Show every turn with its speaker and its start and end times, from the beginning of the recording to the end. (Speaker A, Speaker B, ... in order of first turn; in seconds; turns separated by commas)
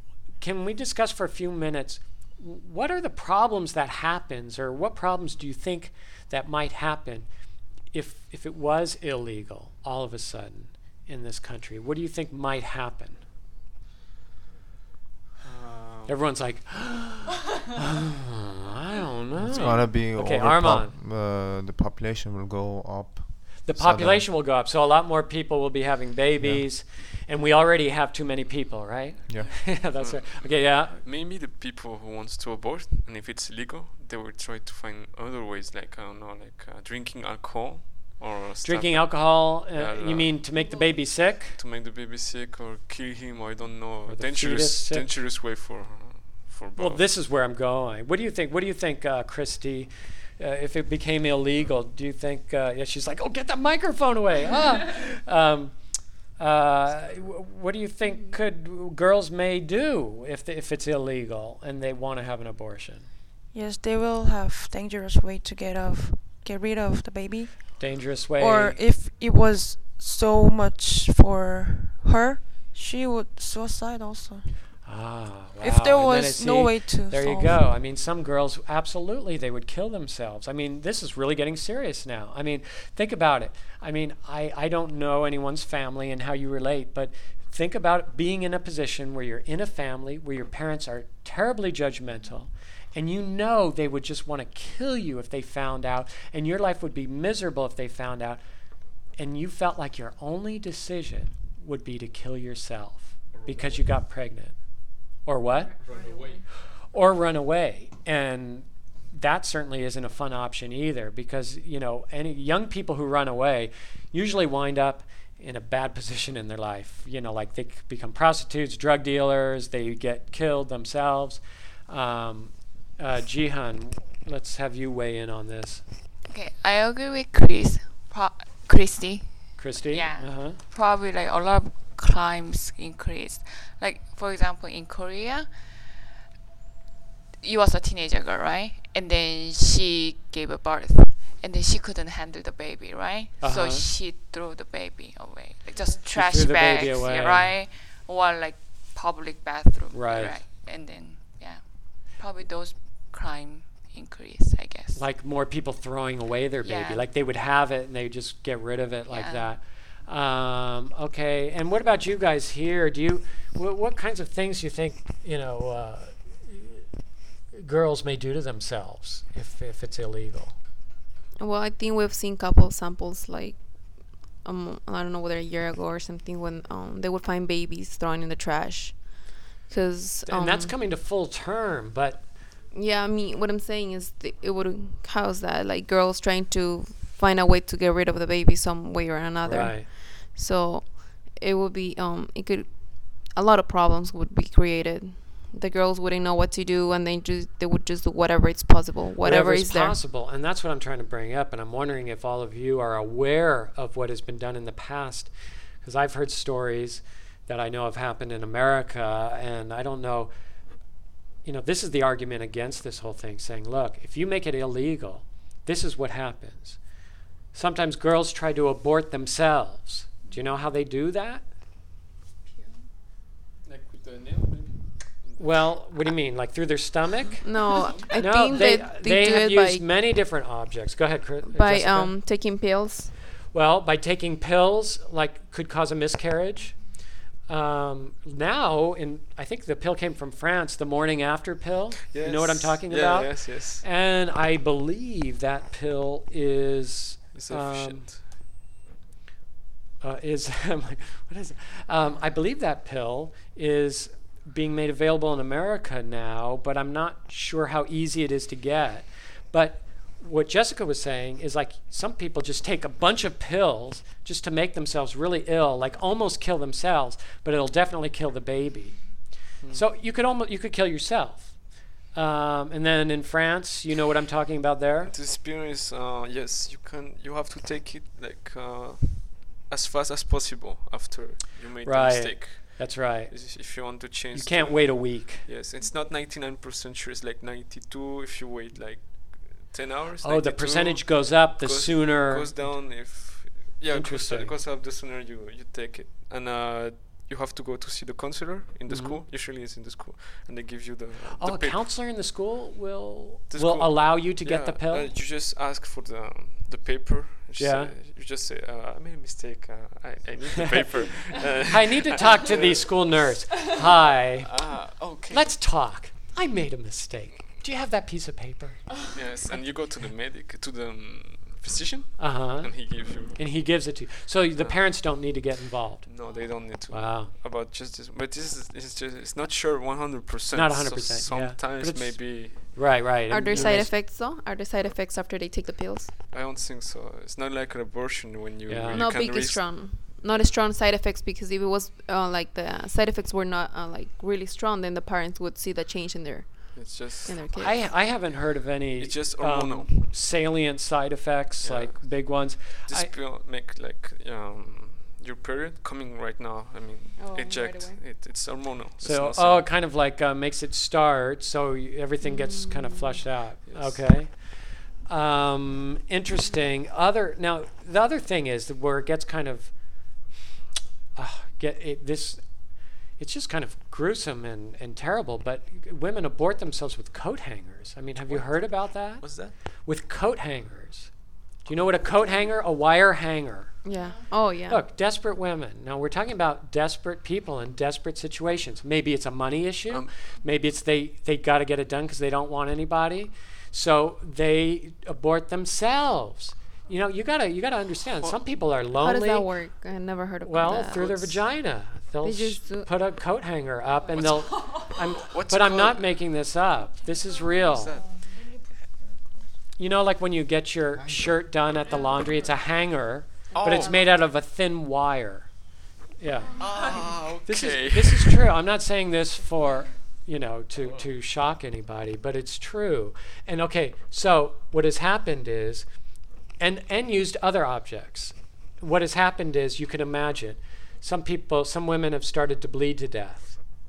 Speaker A: 0.4-7.3, Speaker A: 7.9-13.2, Speaker B: 15.4-16.2, Speaker A: 16.1-20.9, Speaker B: 19.4-19.8, Speaker C: 19.5-24.3, Speaker A: 23.6-31.0, Speaker C: 26.4-26.6, Speaker C: 29.3-29.7, Speaker B: 29.4-40.5, Speaker A: 38.6-41.6, Speaker B: 41.4-47.1, Speaker A: 44.0-45.1, Speaker A: 46.8-55.8, Speaker A: 56.4-63.1, Speaker D: 63.5-67.5, Speaker A: 67.8-68.8, Speaker D: 68.5-72.2, Speaker D: 72.8-74.5, Speaker A: 74.8-98.4, Speaker D: 75.7-77.5, Speaker A: 99.2-104.5, Speaker B: 103.3-103.9, Speaker A: 105.2-105.8, Speaker B: 105.8-106.4, Speaker A: 106.9-125.8, Speaker E: 126.3-135.7, Speaker A: 129.6-130.6, Speaker E: 137.4-155.0, Speaker A: 143.4-143.9, Speaker A: 146.1-147.6, Speaker A: 149.9-150.4, Speaker A: 154.9-166.8, Speaker E: 156.6-157.0, Speaker E: 159.1-159.5, Speaker A: 167.5-170.6, Speaker F: 171.4-180.7, Speaker A: 180.3-182.3, Speaker F: 182.7-200.0, Speaker A: 189.4-189.9, Speaker A: 199.2-210.3, Speaker A: 211.4-216.8, Speaker A: 217.5-221.4, Speaker B: 223.6-225.8, Speaker A: 225.4-232.1, Speaker F: 227.4-229.8, Speaker B: 227.6-228.2, Speaker F: 231.5-233.1, Speaker A: 233.5-236.8, Speaker A: 237.5-248.1, Speaker B: 242.0-243.8, Speaker B: 247.3-248.2, Speaker A: 250.0-269.1, Speaker A: 269.7-275.1, Speaker B: 275.0-302.1, Speaker A: 281.8-283.3, Speaker A: 284.3-285.5, Speaker A: 290.2-292.8, Speaker A: 293.9-294.5, Speaker A: 298.9-299.2, Speaker A: 301.4-305.1, Speaker B: 303.5-315.6, Speaker A: 307.6-307.9, Speaker A: 311.6-314.5, Speaker A: 315.3-318.8, Speaker B: 319.1-323.4, Speaker A: 322.2-326.1, Speaker B: 324.6-325.4, Speaker B: 326.0-333.8, Speaker A: 326.9-327.3, Speaker A: 330.5-333.9, Speaker F: 333.3-336.1, Speaker B: 336.3-339.7, Speaker A: 338.7-339.1, Speaker F: 338.9-347.9, Speaker B: 346.7-347.4, Speaker A: 347.5-353.1, Speaker B: 348.9-350.1, Speaker B: 351.6-359.8, Speaker F: 357.2-358.0, Speaker A: 359.0-370.2, Speaker F: 362.2-363.2, Speaker B: 363.7-364.1, Speaker A: 371.1-381.1, Speaker B: 378.3-379.5, Speaker A: 381.6-383.7, Speaker F: 383.8-384.8, Speaker A: 384.7-399.5, Speaker B: 389.9-390.3, Speaker F: 399.0-401.4, Speaker A: 400.4-408.0, Speaker B: 400.8-401.3, Speaker F: 402.2-402.9, Speaker B: 404.1-406.2, Speaker B: 407.7-408.2, Speaker A: 409.8-415.5, Speaker B: 413.5-414.1, Speaker A: 416.2-416.6, Speaker B: 416.6-418.5, Speaker A: 417.4-425.9, Speaker A: 426.6-433.6